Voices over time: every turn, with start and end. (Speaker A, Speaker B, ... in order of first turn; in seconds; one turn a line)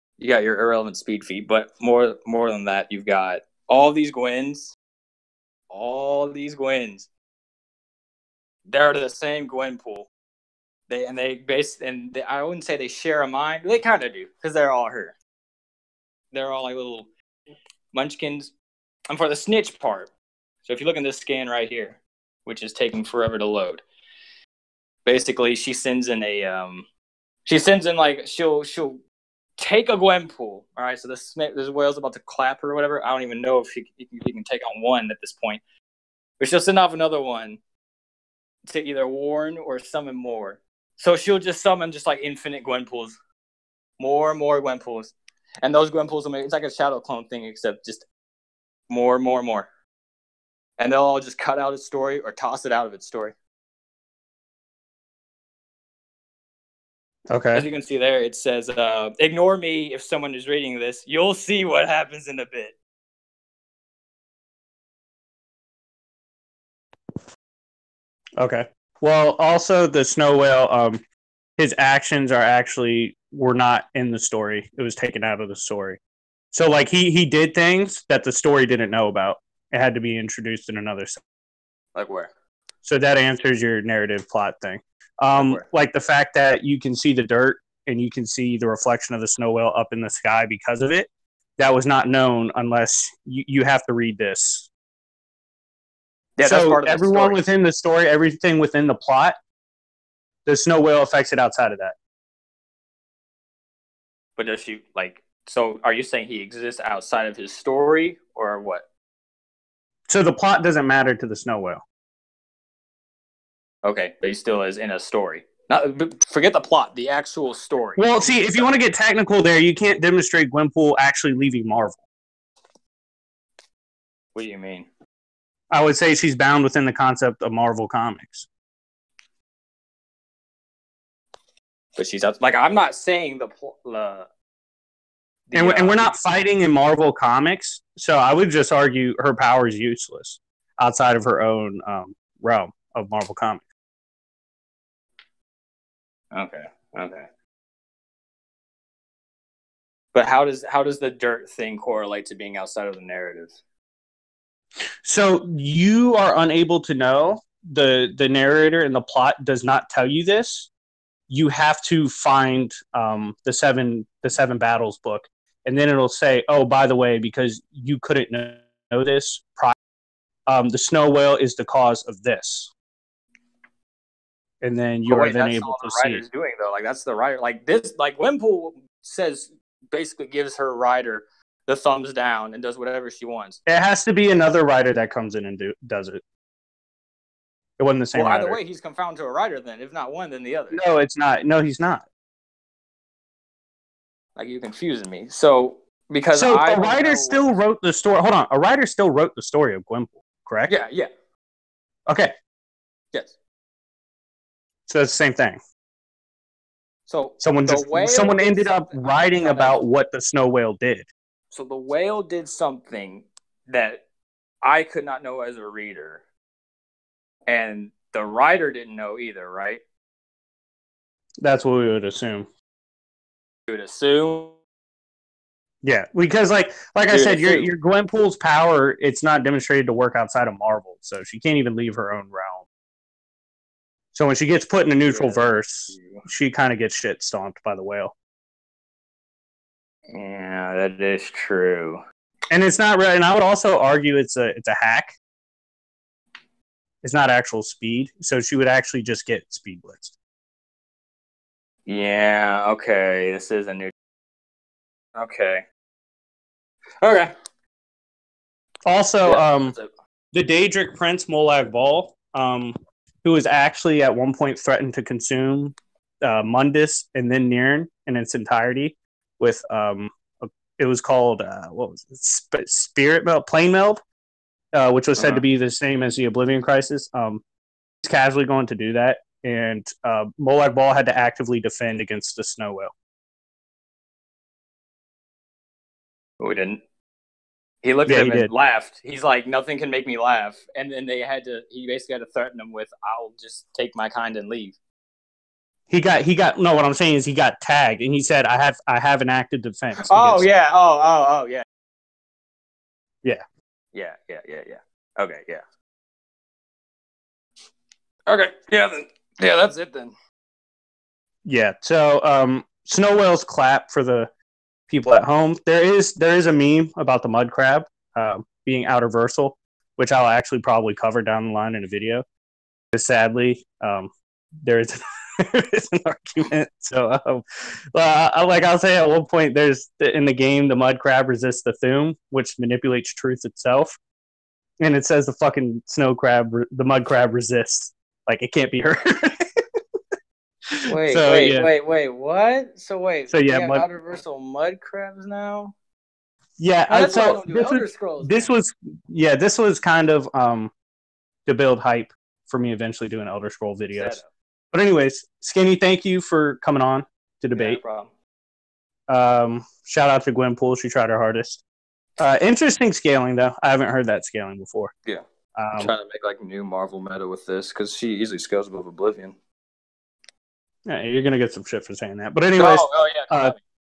Speaker A: 0.2-4.7
Speaker A: 5.7-7.1
Speaker A: 8.7-10.1
Speaker A: 10.9-15.2
Speaker A: 16.3-17.1
Speaker A: 17.9-18.5
Speaker A: 19.1-20.1
Speaker A: 20.6-23.8
Speaker A: 25.1-26.9
Speaker A: 27.4-29.0
Speaker A: 29.6-35.6
Speaker A: 36.4-37.6
Speaker A: 38.7-43.2
Speaker A: 44.0-48.1
Speaker A: 48.9-49.7
Speaker A: 50.8-53.4
Speaker B: 57.3-57.6
Speaker A: 57.5-62.8
Speaker B: 68.4-71.0
Speaker B: 71.6-76.0
Speaker B: 76.5-81.2
Speaker A: 82.0-82.3
Speaker B: 82.8-94.7
Speaker A: 85.3-85.6
Speaker A: 96.4-97.4
Speaker B: 96.4-99.4
Speaker B: 100.5-102.0
Speaker A: 104.4-108.8
Speaker B: 110.1-111.8
Speaker A: 113.8-118.7
Speaker B: 118.0-122.0
Speaker A: 124.3-124.9
Speaker B: 125.7-128.5
Speaker A: 132.0-134.3
Speaker A: 135.5-136.2
Speaker B: 135.6-143.6
Speaker A: 146.3-147.3
Speaker A: 150.1-153.5
Speaker B: 155.0-160.7
Speaker B: 161.3-169.7
Speaker B: 170.5-172.7
Speaker B: 174.6-176.2
Speaker A: 175.1-183.6
Speaker B: 183.7-186.2
Speaker B: 187.8-188.6
Speaker A: 188.2-190.8
Speaker B: 190.7-192.1
Speaker A: 194.4-197.5
Speaker B: 196.3-200.7
Speaker A: 200.7-201.1
Speaker B: 202.1-202.3
Speaker B: 204.9-205.6
Speaker A: 207.1-209.8
Speaker B: 207.4-211.1
Speaker A: 211.5-214.0
Speaker A: 214.6-216.2
Speaker A: 217.5-219.8
Speaker B: 221.4-222.5
Speaker A: 223.7-224.6
Speaker B: 225.8-232.6
Speaker A: 227.1-227.7
Speaker B: 234.1-238.1
Speaker A: 235.1-236.2
Speaker A: 240.1-242.0
Speaker B: 242.5-245.2
Speaker B: 247.0-250.1
Speaker A: 251.9-253.9
Speaker A: 255.2-255.6
Speaker A: 257.0-257.3
Speaker B: 258.9-259.8
Speaker A: 259.2-259.9
Speaker B: 260.3-274.0
Speaker B: 274.7-277.4
Speaker A: 275.2-275.4
Speaker B: 278.0-282.9
Speaker A: 286.4-286.8
Speaker A: 287.8-294.8
Speaker B: 288.1-288.5
Speaker B: 295.9-300.5
Speaker A: 300.1-301.6
Speaker A: 303.9-305.6
Speaker A: 308.3-310.1
Speaker B: 311.4-314.3
Speaker B: 314.9-322.2
Speaker B: 322.9-324.1
Speaker B: 324.6-327.4
Speaker B: 327.9-334.0
Speaker B: 334.8-339.4
Speaker B: 340.7-341.7
Speaker A: 340.9-345.7
Speaker B: 343.3-343.9
Speaker B: 346.6-350.7
Speaker A: 346.9-348.5
Speaker B: 351.5-354.2
Speaker A: 353.9-354.3
Speaker B: 354.7-357.8
Speaker A: 357.6-358.1
Speaker B: 359.1-361.6
Speaker B: 362.2-364.9
Speaker B: 365.6-365.9
Speaker A: 365.8-369.4
Speaker B: 370.9-373.6
Speaker A: 372.6-373.6